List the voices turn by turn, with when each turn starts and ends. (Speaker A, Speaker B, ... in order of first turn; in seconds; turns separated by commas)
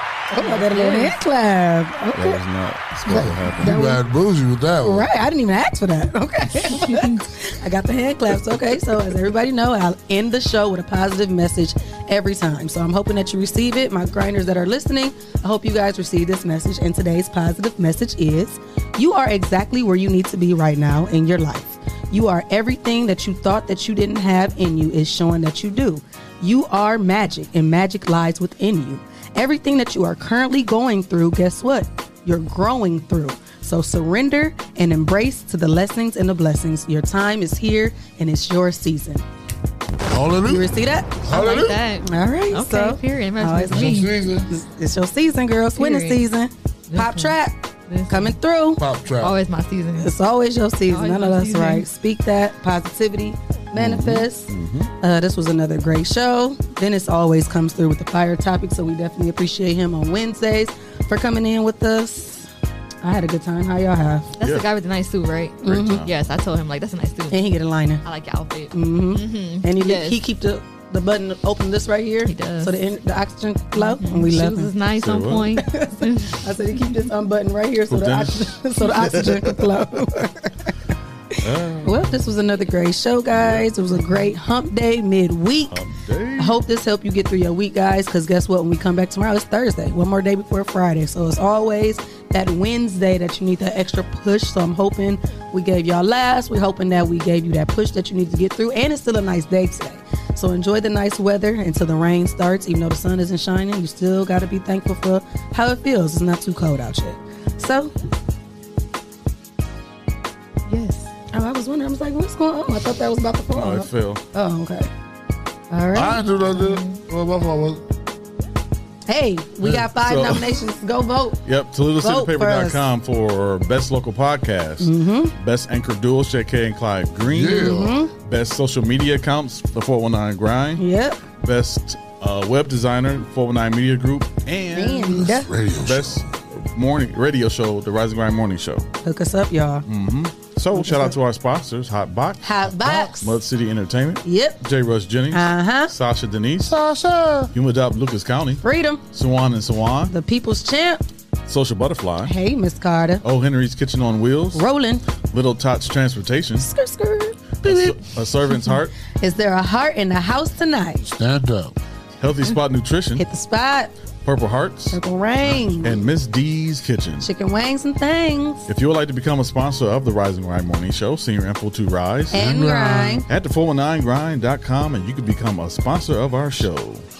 Speaker A: 0.3-2.4, Speaker B: 0.4-1.1, Speaker C: 2.1-3.8, Speaker D: 3.1-5.1, Speaker A: 3.2-4.0, Speaker A: 4.8-39.2, Speaker B: 6.9-7.2, Speaker D: 40.1-41.8, Speaker A: 40.4-41.3, Speaker B: 41.2-44.3, Speaker A: 42.0-48.8, Speaker D: 43.7-44.5, Speaker B: 45.8-46.2, Speaker B: 46.9-48.4, Speaker D: 48.8-49.4, Speaker B: 49.2-50.1, Speaker A: 50.0-62.5, Speaker B: 50.9-51.9, Speaker C: 53.7-54.9, Speaker A: 63.0-64.3, Speaker B: 64.4-67.5, Speaker C: 64.4-64.7, Speaker A: 65.6-66.0, Speaker C: 65.6-66.2, Speaker A: 67.3-68.0, Speaker B: 68.0-70.2, Speaker A: 68.7-74.7, Speaker B: 72.2-72.8, Speaker B: 73.7-76.9, Speaker C: 74.9-75.6, Speaker A: 75.6-80.7, Speaker C: 77.9-79.8, Speaker C: 81.3-82.0, Speaker A: 81.8-85.8, Speaker C: 83.3-83.6, Speaker B: 84.0-84.3, Speaker C: 85.7-86.6, Speaker A: 86.3-107.9, Speaker B: 110.7-111.1, Speaker A: 111.3-114.9, Speaker C: 113.5-114.2, Speaker A: 115.7-116.2, Speaker D: 115.9-117.8, Speaker B: 116.5-117.0, Speaker A: 119.1-121.4, Speaker C: 119.6-120.6, Speaker C: 121.4-130.8, Speaker A: 122.0-122.8, Speaker A: 124.8-125.3, Speaker D: 127.2-128.0, Speaker A: 127.5-128.1, Speaker A: 130.8-131.2, Speaker C: 131.4-135.2, Speaker A: 134.7-135.5, Speaker D: 134.7-136.3, Speaker C: 135.8-138.8, Speaker A: 139.0-139.8, Speaker C: 139.8-146.7, Speaker A: 140.7-141.1, Speaker A: 142.4-143.3, Speaker A: 144.2-144.6, Speaker A: 145.3-145.9, Speaker D: 146.7-147.5, Speaker C: 147.5-150.1, Speaker A: 148.6-149.0, Speaker A: 150.1-151.1, Speaker C: 151.4-152.3, Speaker A: 152.2-153.2, Speaker C: 153.2-154.7, Speaker A: 154.5-155.0, Speaker C: 155.3-156.7, Speaker A: 156.6-157.9, Speaker C: 157.6-158.9, Speaker A: 159.1-161.1, Speaker D: 161.0-161.8, Speaker C: 162.2-163.2, Speaker A: 163.2-163.9, Speaker C: 164.2-167.3, Speaker A: 164.9-166.0, Speaker A: 167.2-168.7, Speaker C: 168.7-172.5, Speaker A: 172.3-173.2, Speaker D: 172.3-173.2, Speaker C: 173.2-177.0